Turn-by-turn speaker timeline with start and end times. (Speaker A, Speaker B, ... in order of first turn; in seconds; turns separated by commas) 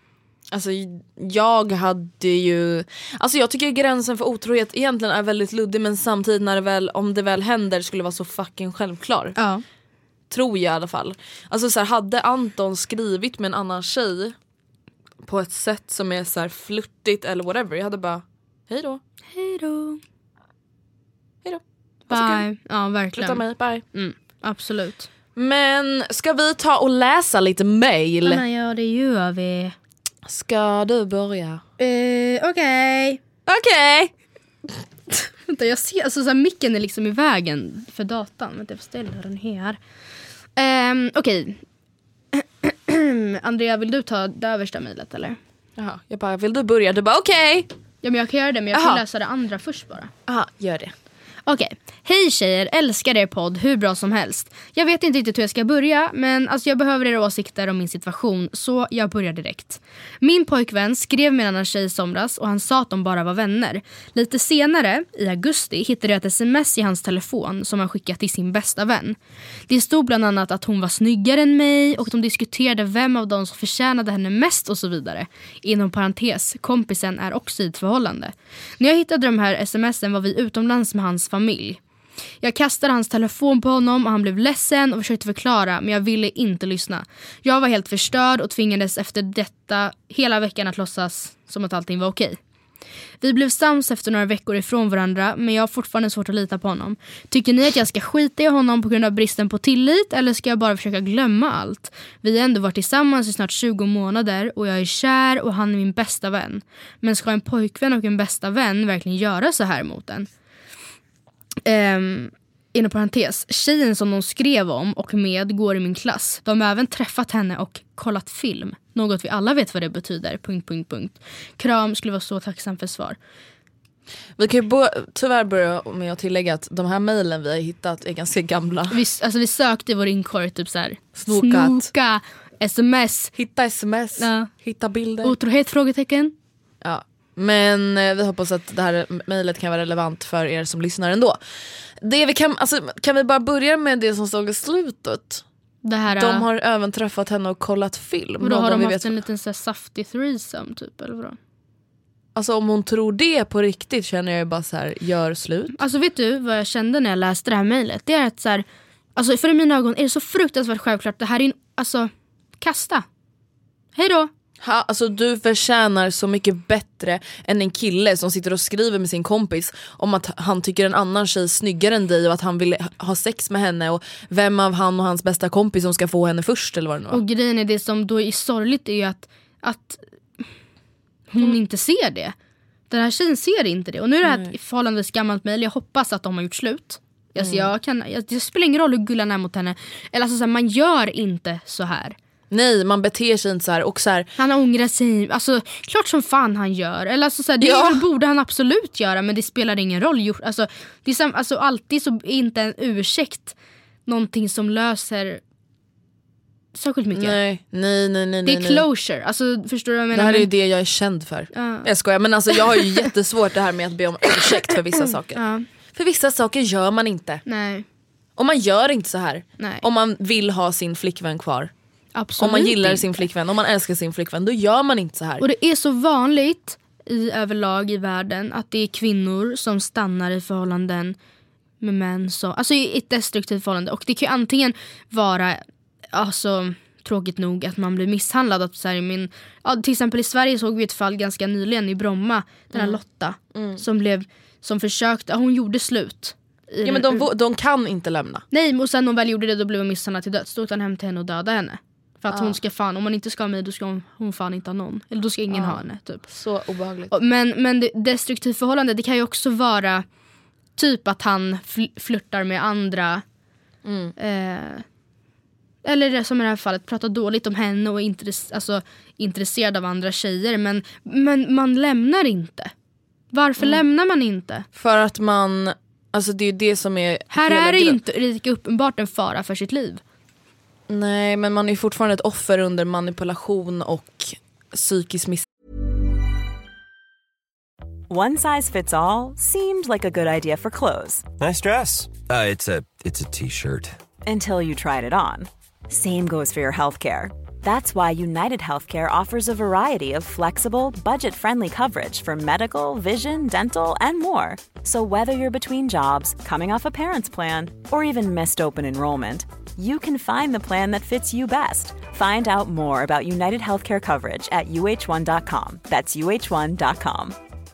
Speaker A: 0.5-9.4, Speaker B: 9.4-9.6, Speaker A: 10.3-14.3, Speaker A: 15.2-19.0, Speaker B: 19.3-20.0, Speaker A: 21.4-22.4, Speaker B: 22.1-23.4, Speaker A: 23.2-23.8, Speaker B: 23.9-25.1, Speaker A: 25.4-28.4, Speaker B: 28.2-29.8, Speaker A: 30.3-31.6, Speaker B: 31.8-33.2, Speaker A: 33.5-34.1, Speaker B: 35.5-39.8, Speaker B: 40.6-41.6, Speaker B: 42.3-45.4, Speaker A: 45.8-47.7, Speaker B: 48.0-50.1, Speaker A: 48.7-49.0, Speaker A: 50.3-50.9, Speaker B: 51.5-69.2, Speaker B: 69.7-81.8, Speaker B: 82.4-92.4, Speaker B: 93.2-110.3, Speaker B: 111.7-123.2, Speaker A: 124.4-129.0, Speaker B: 128.9-133.3, Speaker A: 131.2-131.9, Speaker A: 133.4-135.3, Speaker B: 134.2-134.5, Speaker B: 135.2-136.3, Speaker A: 136.8-141.4, Speaker A: 142.0-145.4, Speaker B: 145.8-146.4, Speaker A: 146.2-149.2, Speaker B: 148.4-151.4, Speaker A: 152.3-155.8, Speaker B: 155.7-158.7, Speaker B: 159.2-163.1, Speaker B: 164.0-164.3, Speaker A: 164.6-177.2, Speaker B: 177.1-180.5, Speaker B: 181.3-182.3, Speaker B: 182.9-192.2, Speaker A: 184.2-184.5, Speaker A: 187.4-187.7, Speaker A: 192.5-194.3, Speaker B: 194.4-203.6, Speaker A: 197.6-198.0, Speaker B: 204.1-205.4, Speaker B: 206.8-207.4, Speaker A: 207.2-208.8, Speaker B: 208.4-210.5, Speaker A: 210.1-215.4, Speaker B: 211.5-211.9, Speaker B: 215.1-215.7, Speaker A: 215.9-217.4, Speaker B: 217.5-217.9, Speaker A: 218.4-221.7, Speaker B: 219.6-219.8, Speaker B: 222.2-223.3, Speaker A: 222.4-225.4, Speaker B: 225.4-231.2, Speaker B: 231.8-247.2, Speaker A: 242.7-243.0, Speaker A: 243.5-243.8, Speaker A: 246.8-248.4, Speaker B: 248.5-256.3, Speaker A: 252.3-252.6, Speaker A: 255.5-257.1, Speaker B: 257.1-260.1, Speaker B: 260.8-263.2, Speaker A: 263.8-264.1, Speaker B: 264.2-264.9, Speaker B: 265.9-272.7, Speaker B: 273.3-274.7, Speaker A: 274.8-278.0, Speaker B: 277.3-280.0, Speaker A: 280.9-285.4, Speaker C: 288.1-291.3, Speaker D: 291.4-293.9, Speaker C: 294.2-317.4